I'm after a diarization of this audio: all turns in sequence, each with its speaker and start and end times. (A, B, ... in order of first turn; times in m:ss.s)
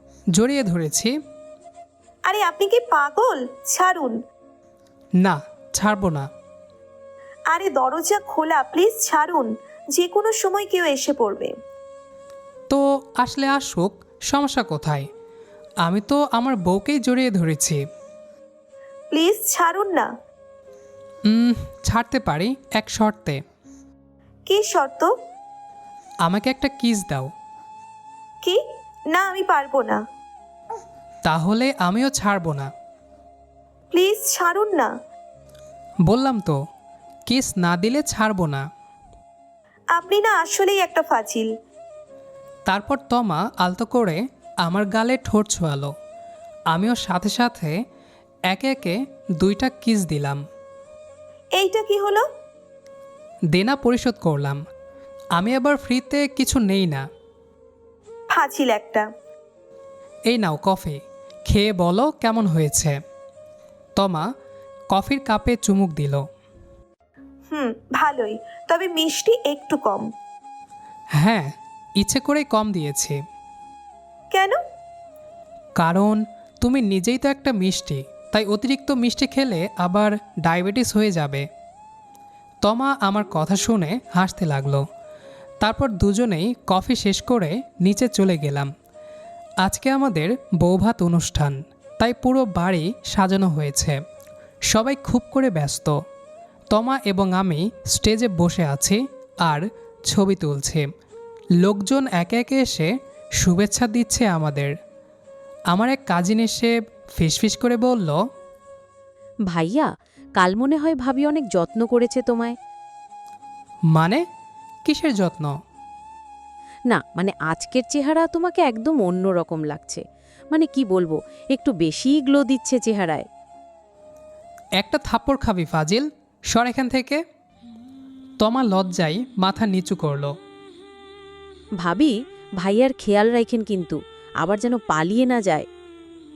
0:00.3-0:01.2 A
0:02.3-0:04.2 B
0:05.2-0:06.3 A
0:07.5-0:11.6 B
0:12.7-0:15.1 A
0:15.8-0:17.8 A
0:19.1-0:20.1 B
0:21.3-0:23.4 A
0:24.5-0:25.1 B
0:26.2-0:27.3 A
0:28.4-0:30.0 B
0:31.2-0:32.7 A
0:33.9-0:34.9 B
0:36.1-0:36.6 A
0:37.3-0:38.7 A
0:39.9-0:41.5 B
0:42.7-0:45.9 A
0:46.7-0:47.8 A
0:48.5-0:50.4 A
0:51.6-0:52.3 B
0:53.5-0:54.6 A
0:55.4-0:57.0 A
0:58.3-0:59.1 B
1:00.3-1:03.0 A
1:04.0-1:04.3 A
1:04.9-1:06.2 A
1:07.5-1:10.1 B
1:11.2-1:13.2 A
1:14.3-1:14.6 B
1:15.8-1:21.5 A
1:22.6-1:24.8 A
1:25.6-1:28.7 A
1:29.6-1:34.0 A
1:34.7-1:36.0 A
1:36.7-1:40.9 A
1:41.6-1:44.7 A
1:45.7-1:48.2 A
1:49.4-1:52.6 C
1:53.9-1:54.2 A
1:54.8-1:55.6 A
1:56.9-2:03.3 C
2:04.8-2:07.2 A
2:08.4-2:10.3 A
2:11.8-2:15.6 C